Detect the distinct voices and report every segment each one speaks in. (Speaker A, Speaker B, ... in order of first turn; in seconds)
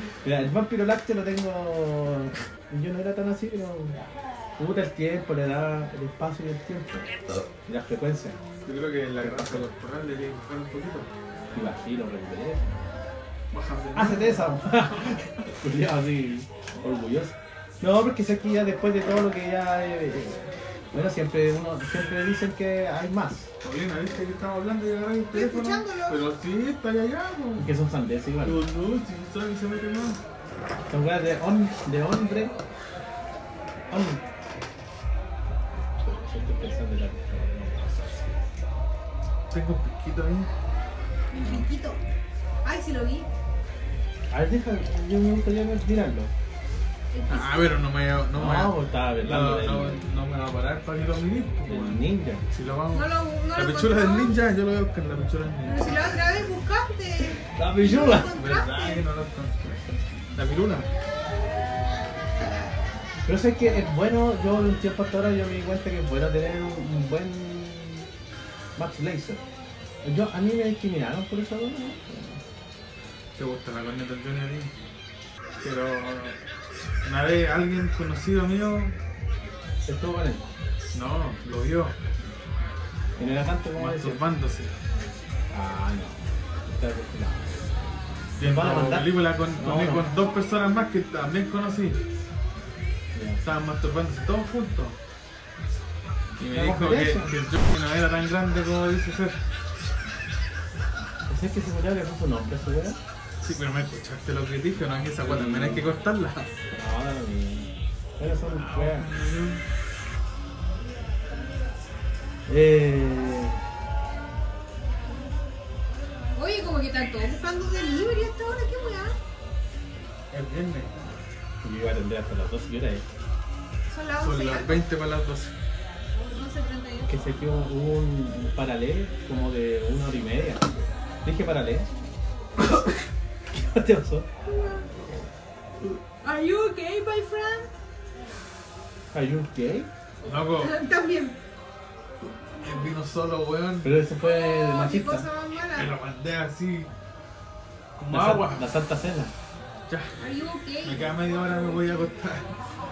Speaker A: 0.2-4.0, 4.6-8.4, 9.2-9.7, 11.5-12.9, 13.9-23.5, 27.6-28.6, 30.9-32.6, 33.9-34.2, 36.0-38.4, 41.4-41.6, 44.3-46.3, 48.3-50.0, 51.6-52.4, 57.5-58.4, 63.3-68.1, 68.8-69.4, 70.0-72.4, 79.9-80.5, 83.2-84.2, 85.5-87.9, 88.4-90.1, 93.2-93.4, 96.5-97.3, 101.3-103.0, 105.2-105.9, 106.8-109.1, 112.5-113.6, 121.6-123.0, 127.0-130.6, 131.2-131.9, 132.6-132.9, 133.5-134.3, 139.1-139.9, 143.8-145.3, 148.1-149.3
Speaker B: 8.7-11.1, 13.5-15.4, 23.6-27.7, 28.4-30.2, 39.5-40.5, 47.3-56.1, 58.3-60.9, 73.4-74.7, 75.6-76.4, 77.0-79.0, 80.9-82.0, 83.8-84.7, 88.4-92.0, 93.4-95.0, 96.4-99.4, 103.4-106.5, 108.6-109.6, 120.3-121.2, 124.2-125.5, 140.2-140.8, 142.6-143.9, 145.8-146.9, 148.0-148.7, 149.9-150.2, 150.8-152.5
Speaker C: 25.3-26.2, 41.3-42.0, 42.6-43.3, 47.1-47.9, 52.9-54.4, 55.6-59.1, 116.3-119.2, 123.9-124.9, 126.2-127.3, 134.4-134.9, 136.2-137.7, 140.3-141.4, 144.2-146.0, 150.2-151.6